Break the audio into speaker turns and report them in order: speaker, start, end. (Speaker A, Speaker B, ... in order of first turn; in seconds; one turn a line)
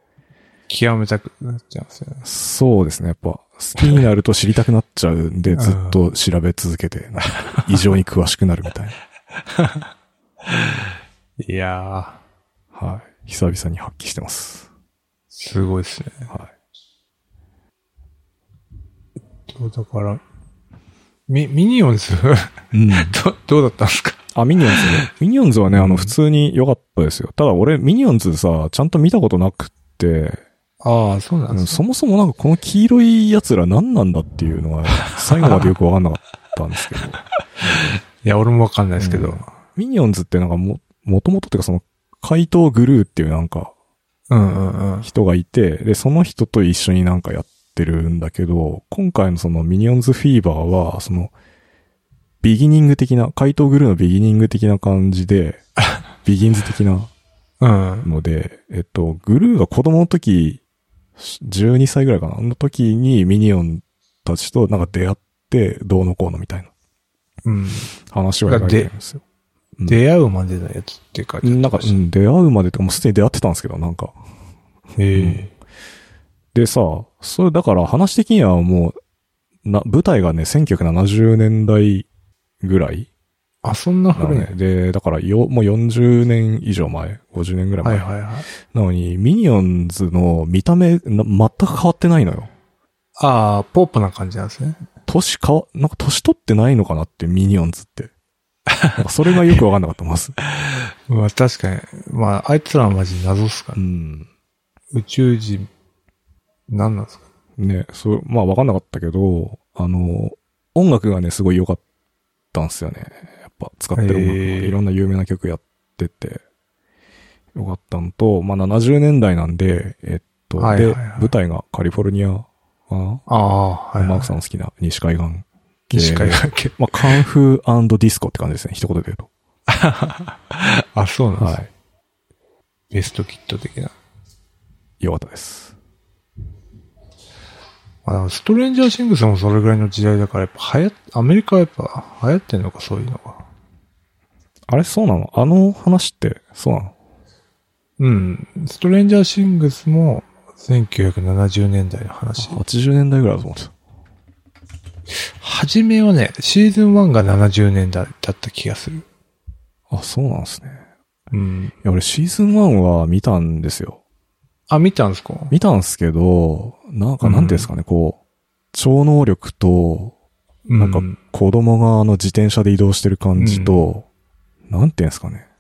Speaker A: 0.7-2.2
Speaker B: 2.2-9.0
Speaker A: 5.5-6.0
Speaker A: 9.5-9.8
Speaker A: 11.4-12.2
Speaker B: 12.7-14.7
Speaker A: 15.3-16.3
Speaker A: 19.5-20.2
Speaker A: 21.3-25.1
Speaker B: 22.7-23.1
Speaker B: 24.3-30.4
Speaker A: 25.7-26.1
Speaker A: 30.8-31.8
Speaker B: 31.5-37.2
Speaker A: 35.1-35.7
Speaker A: 38.2-39.5
Speaker B: 39.0-43.7
Speaker A: 44.3-45.1
Speaker B: 45.0-51.3
Speaker B: 52.4-55.6
Speaker B: 56.2-57.1
Speaker A: 57.6-58.1
Speaker B: 58.0-60.6
Speaker B: 61.2-66.7
Speaker A: 67.5-67.9
Speaker B: 68.1-69.2
Speaker A: 68.5-68.9
Speaker A: 69.9-72.0
Speaker B: 71.4-74.2
Speaker A: 75.0-75.5
Speaker B: 75.1-75.5
Speaker B: 76.5-79.0
Speaker B: 79.6-82.1
Speaker B: 82.6-83.1
Speaker A: 83.6-84.5
Speaker B: 84.2-88.1
Speaker A: 87.8-88.5
Speaker B: 88.7-92.5
Speaker A: 93.2-94.8
Speaker B: 95.1-98.1
Speaker B: 99.0-100.4
Speaker A: 101.1-103.8
Speaker B: 103.8-104.3
Speaker A: 104.9-105.7
Speaker A: 106.7-107.2
Speaker B: 107.6-111.8
Speaker B: 112.5-116.4
Speaker A: 114.0-114.8
Speaker B: 117.5-123.3
Speaker A: 120.6-121.3
Speaker A: 123.3-124.3
Speaker B: 124.0-129.3
Speaker A: 125.9-127.2
Speaker A: 129.7-131.6
Speaker B: 131.4-131.7
Speaker A: 132.9-133.9
Speaker B: 135.0-135.7
Speaker A: 138.1-143.4
Speaker B: 144.7-146.9
Speaker A: 148.0-152.6
Speaker B: 152.4-153.7
Speaker A: 155.4-159.1
Speaker B: 159.9-160.8
Speaker A: 161.3-161.7
Speaker B: 161.8-164.0
Speaker A: 164.7-165.6
Speaker B: 165.5-168.2
Speaker A: 167.2-167.7
Speaker B: 168.7-170.1
Speaker A: 170.7-171.2
Speaker B: 170.8-174.1
Speaker A: 173.4-173.8
Speaker B: 174.7-175.5